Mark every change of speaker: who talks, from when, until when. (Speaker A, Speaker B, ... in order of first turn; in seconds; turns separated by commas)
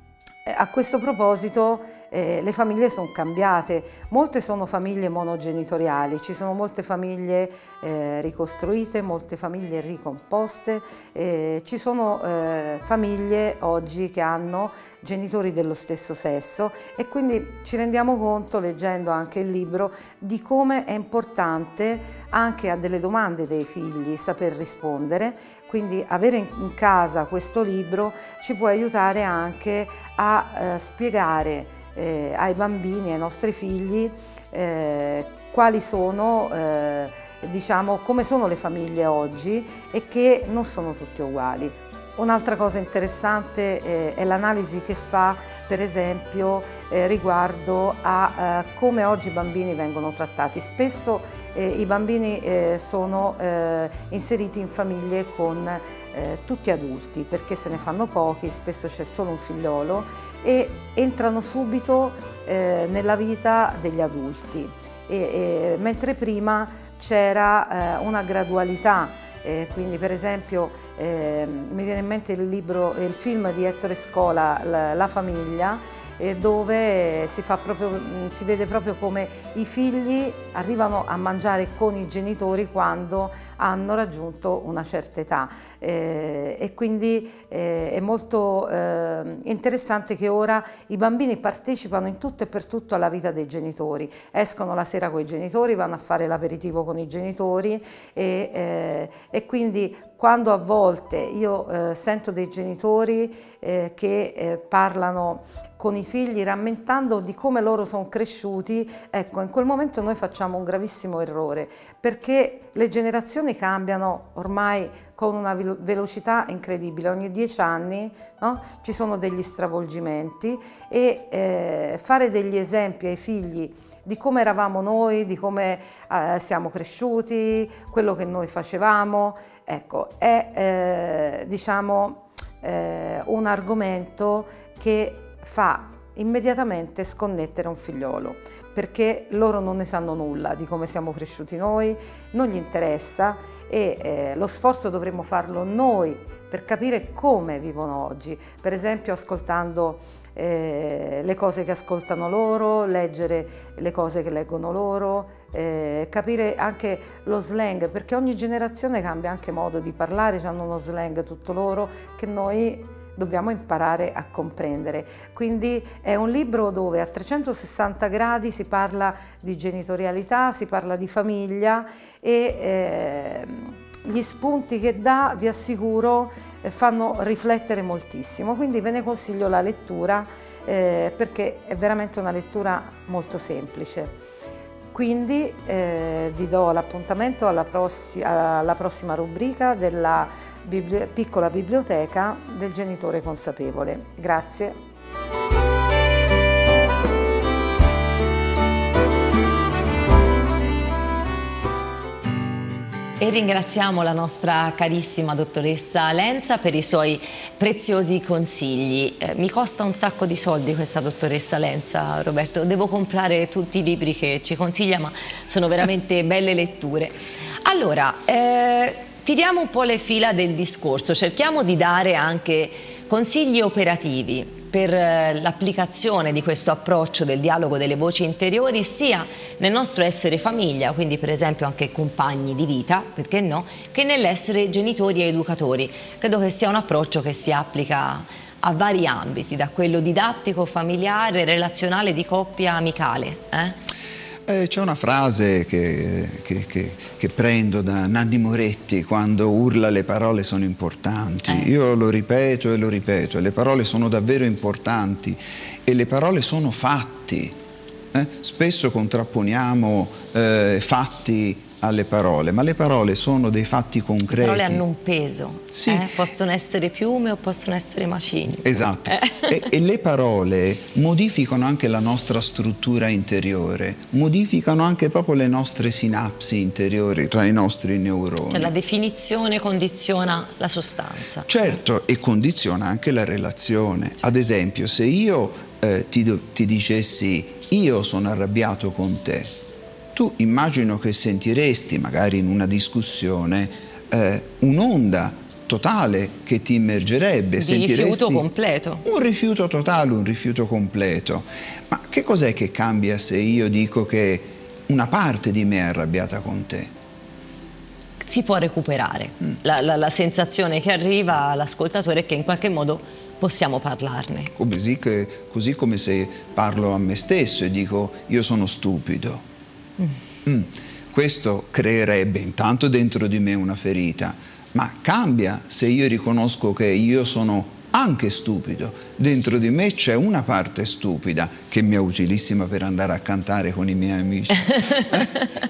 Speaker A: 0.5-184.1, Speaker A: 184.9-194.8, Speaker B: 203.2-243.8, Speaker C: 244.5-257.6, Speaker B: 251.5-251.8, Speaker C: 258.1-264.8, Speaker B: 264.3-269.5, Speaker C: 265.7-266.1, Speaker C: 268.6-278.7, Speaker B: 278.5-281.5, Speaker C: 281.5-289.5, Speaker C: 290.1-298.5, Speaker B: 297.6-299.1, Speaker C: 299.1-306.9, Speaker B: 308.2-314.5, Speaker C: 314.5-319.4, Speaker C: 320.5-335.3, Speaker B: 334.8-335.5